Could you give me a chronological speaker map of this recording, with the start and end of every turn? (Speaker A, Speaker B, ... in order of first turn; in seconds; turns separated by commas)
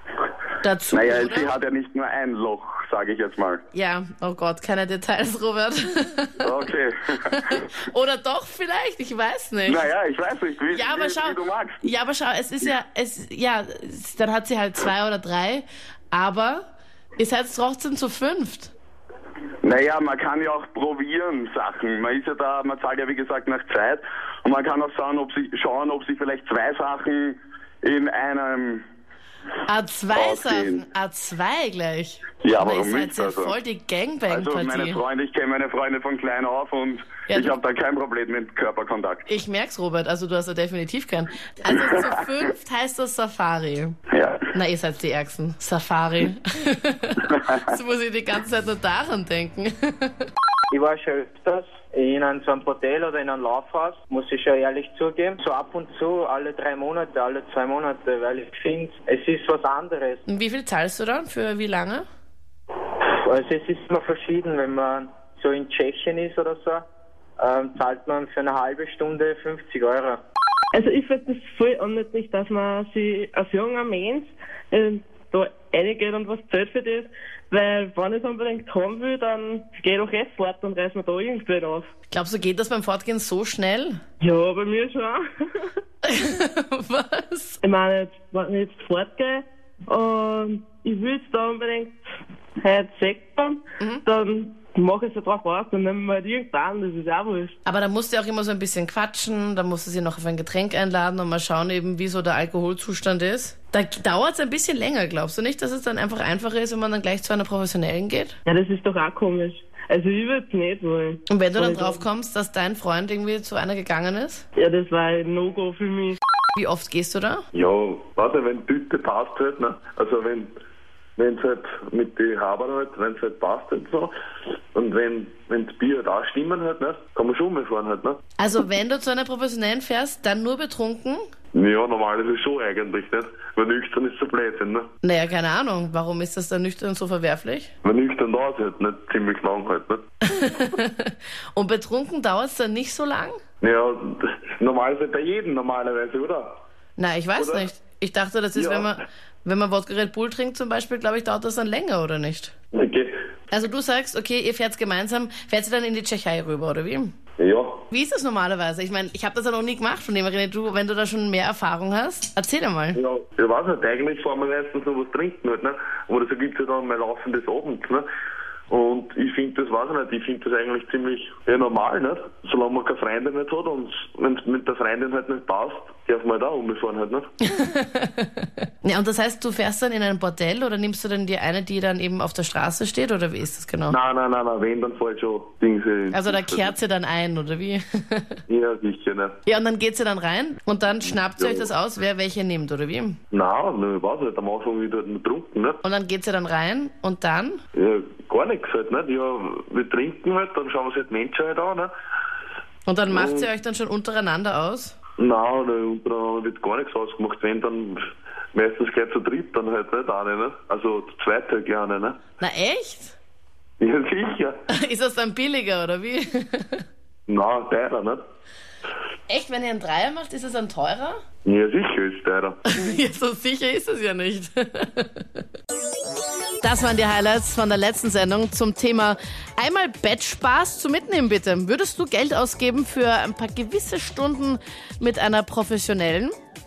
Speaker A: 0.6-1.5, Speaker B: 0.9-3.6, Speaker A: 3.7-6.5, Speaker B: 6.4-7.1, Speaker A: 7.3-9.9, Speaker B: 9.7-11.8, Speaker A: 10.7-16.6, Speaker A: 17.2-18.7, Speaker B: 19.6-28.8, Speaker A: 29.7-35.0, Speaker B: 30.1-30.8, Speaker B: 32.4-33.5, Speaker B: 34.3-39.3, Speaker A: 37.3-37.6, Speaker A: 39.3-44.0, Speaker B: 44.1-44.4, Speaker A: 44.5-50.1, Speaker C: 50.7-60.2, Speaker A: 60.3-62.0, Speaker C: 63.2-66.8, Speaker C: 67.4-70.2, Speaker D: 70.7-81.9, Speaker A: 82.1-84.0, Speaker D: 84.2-85.2, Speaker A: 86.0-87.6, Speaker D: 87.6-91.9, Speaker D: 92.6-97.5, Speaker A: 93.8-94.0, Speaker A: 97.7-108.3, Speaker D: 108.5-112.0, Speaker A: 111.3-114.4, Speaker D: 114.6-116.2, Speaker A: 116.5-117.4, Speaker E: 117.5-120.5, Speaker E: 121.2-124.1, Speaker E: 124.7-128.2, Speaker A: 128.4-131.2, Speaker E: 131.5-134.9, Speaker A: 135.0-137.7, Speaker E: 137.8-140.1, Speaker A: 140.3-143.4, Speaker E: 143.6-146.5, Speaker A: 147.0-152.5, Speaker E: 147.4-147.7, Speaker E: 148.5-148.9, Speaker E: 152.7-153.1, Speaker A: 153.5-157.1, Speaker E: 157.4-157.8, Speaker A: 157.9-163.0, Speaker E: 162.9-168.1, Speaker E: 168.7-177.3, Speaker A: 177.5-184.0, Speaker E: 183.9-186.7, Speaker A: 186.1-188.4, Speaker E: 188.5-189.4, Speaker A: 189.4-193.2, Speaker E: 191.4-191.7, Speaker E: 193.3-195.8, Speaker A: 195.8-197.6, Speaker E: 197.7-201.9, Speaker A: 202.8-204.9, Speaker E: 203.1-203.5, Speaker E: 205.2-212.2, Speaker A: 212.4-213.2, Speaker E: 213.8-214.6, Speaker A: 214.7-216.8, Speaker E: 217.3-218.2, Speaker A: 219.3-221.2, Speaker E: 221.4-222.6, Speaker A: 222.7-225.2, Speaker A: 226.6-236.3